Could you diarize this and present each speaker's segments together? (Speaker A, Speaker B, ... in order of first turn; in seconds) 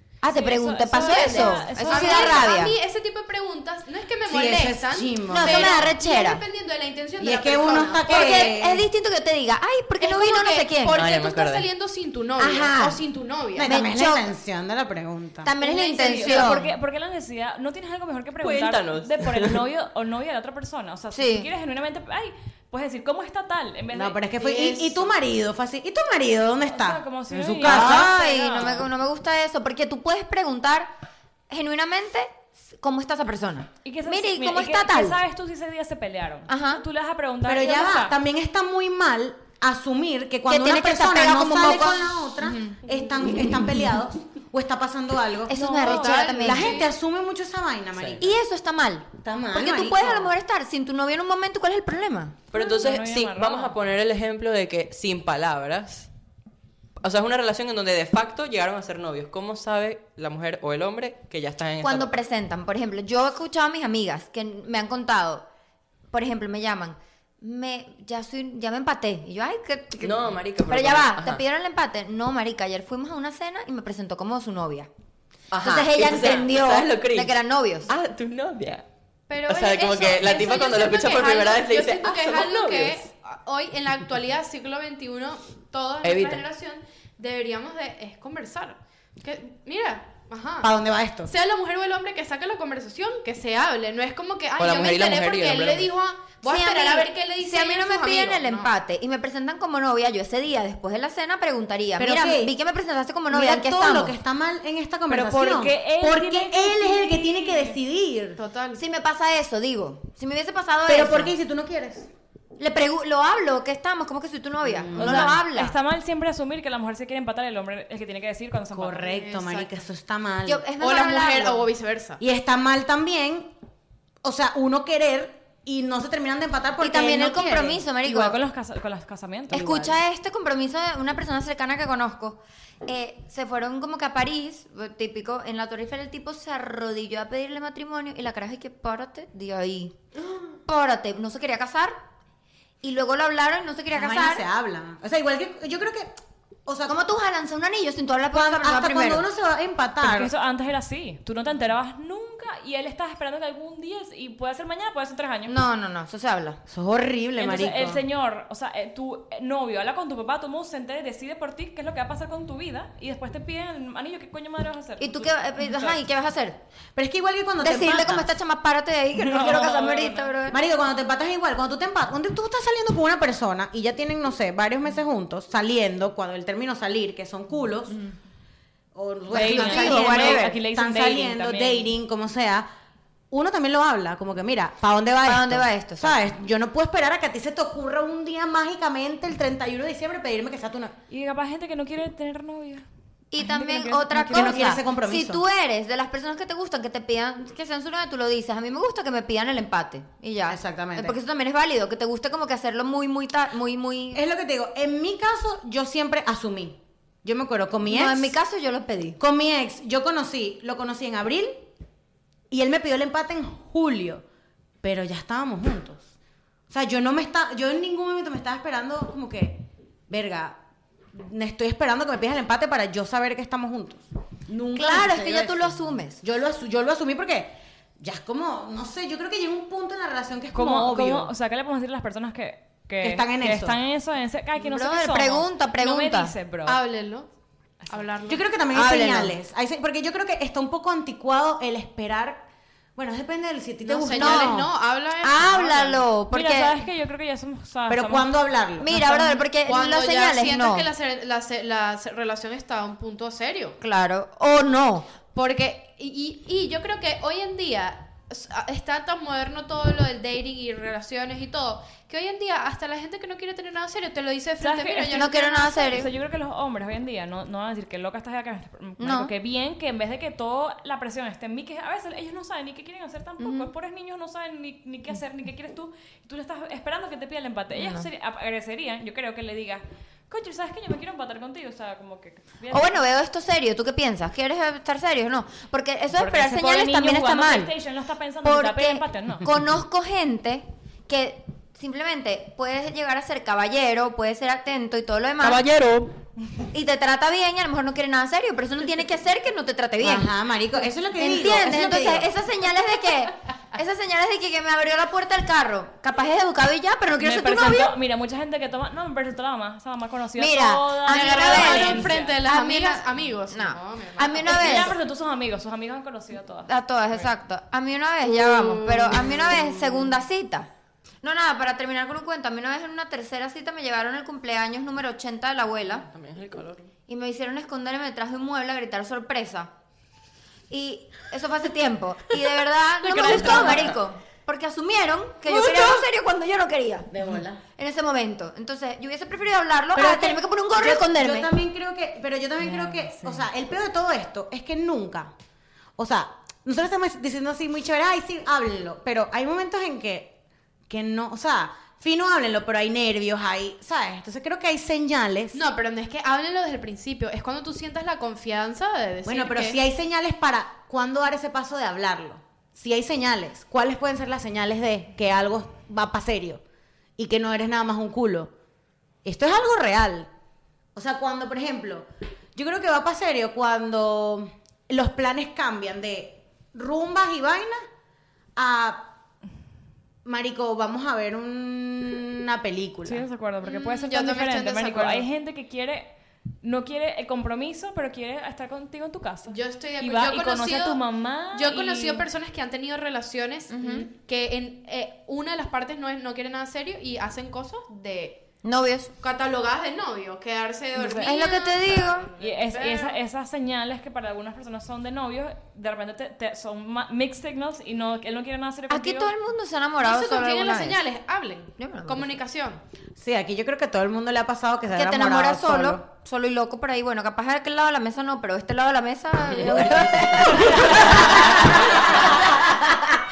Speaker A: 0.2-2.8, 5.3-6.4, 8.1-11.0, 12.5-13.0, 13.6-14.3, 15.4-16.7, 21.1-21.5, 27.6-30.9, 31.5-35.2, 36.5-36.8, 40.5-44.0, 45.5-46.9, 48.2-52.4, 61.8-65.5, 66.1-74.9, 75.6-77.9, 96.4-104.2, 108.8-111.4, 112.6-115.8, 120.5-121.7, 126.8-128.4, 129.5-139.9, 140.7-142.0, 142.8-144.5, 146.9-149.3, 155.5-156.6, 165.0-166.6, 167.6-170.6, 179.3-180.6, 185.2-186.2, 193.3-204.2, 207.9-209.2, 224.7-226.2, 234.6-236.3, 238.7-239.4, 244.1-244.7, 245.2-246.8, 248.8-250.9, 253.8-255.1, 265.1-266.1, 269.0-269.3, 273.4-273.7, 277.7-278.1, 282.7-287.7, 288.4-295.6, 296.7-300.3, 301.2-307.9, 310.4-315.0, 316.7-320.7, 321.2-326.1, 327.1-329.7, 330.7-337.1, 337.8-341.5, 393.7-394.1, 398.6-399.1, 401.2-402.3, 408.9-411.0, 411.8-412.4, 414.9-422.8
Speaker B: 0.3-2.4, 16.0-25.0, 26.6-28.9, 33.9-38.2, 45.5-46.5, 52.5-53.8, 105.1-106.8, 115.0-119.1, 128.0-129.6, 150.0-155.6, 157.4-166.0, 169.2-170.3, 179.3-181.9, 191.1-192.9, 193.4-194.7, 230.5-236.8, 246.3-248.3, 248.9-249.4, 264.6-283.0, 286.1-289.5, 307.2-312.4, 314.4-316.7, 333.0-333.9, 342.6-343.4, 383.1-386.1, 386.6-392.3, 400.9-401.3, 402.4-409.3
Speaker C: 1.1-8.5, 10.0-13.8, 15.6-16.6, 24.4-24.9, 45.8-46.9, 79.3-90.7, 91.3-98.7, 106.8-107.8, 108.4-108.8, 119.0-119.8, 120.7-122.2, 236.7-237.3, 237.9-238.4, 243.8-246.1, 249.6-253.8, 255.3-266.1, 311.1-314.8, 318.4-319.5, 355.5-359.8, 383.6-385.3, 389.5-391.0, 391.5-398.4, 399.2-403.2, 410.0-412.8, 420.7-421.4
Speaker D: 2.1-2.5, 4.3-5.9, 7.2-8.9, 12.4-12.7, 13.5-15.5, 23.9-28.1, 37.4-45.6, 46.3-48.4, 49.2-50.3, 90.6-91.3, 102.0-102.5, 103.3-108.4, 110.9-112.1, 114.6-115.4, 118.7-120.7, 122.2-123.5, 124.2-127.8, 129.5-130.0, 143.9-146.1, 146.7-147.0, 148.3-150.3, 156.7-158.0, 166.9-168.3, 170.5-178.0, 178.9-182.7, 183.3-190.9, 194.3-195.4, 200.5-201.2, 204.1-208.4, 209.2-211.6, 212.5-214.2, 214.8-216.1, 216.7-220.6, 221.1-231.3, 233.0-233.8, 238.3-242.4, 243.0-244.7, 247.9-248.9, 300.0-302.3, 335.5-335.9, 337.1-337.6, 339.9-345.3, 346.0-350.4, 350.9-355.6, 359.2-366.6, 367.2-368.5, 369.2-370.3, 370.9-377.8, 378.6-379.1, 380.2-383.2, 413.2-416.0
Speaker E: 10.9-11.7, 18.4-19.6, 48.0-48.2, 52.5-56.1, 57.0-62.1, 70.0-71.4, 75.5-77.3, 77.9-78.8, 79.5-83.1, 86.0-86.4, 94.6-95.9, 295.4-296.1, 326.1-326.9, 333.6-333.9, 420.8-421.3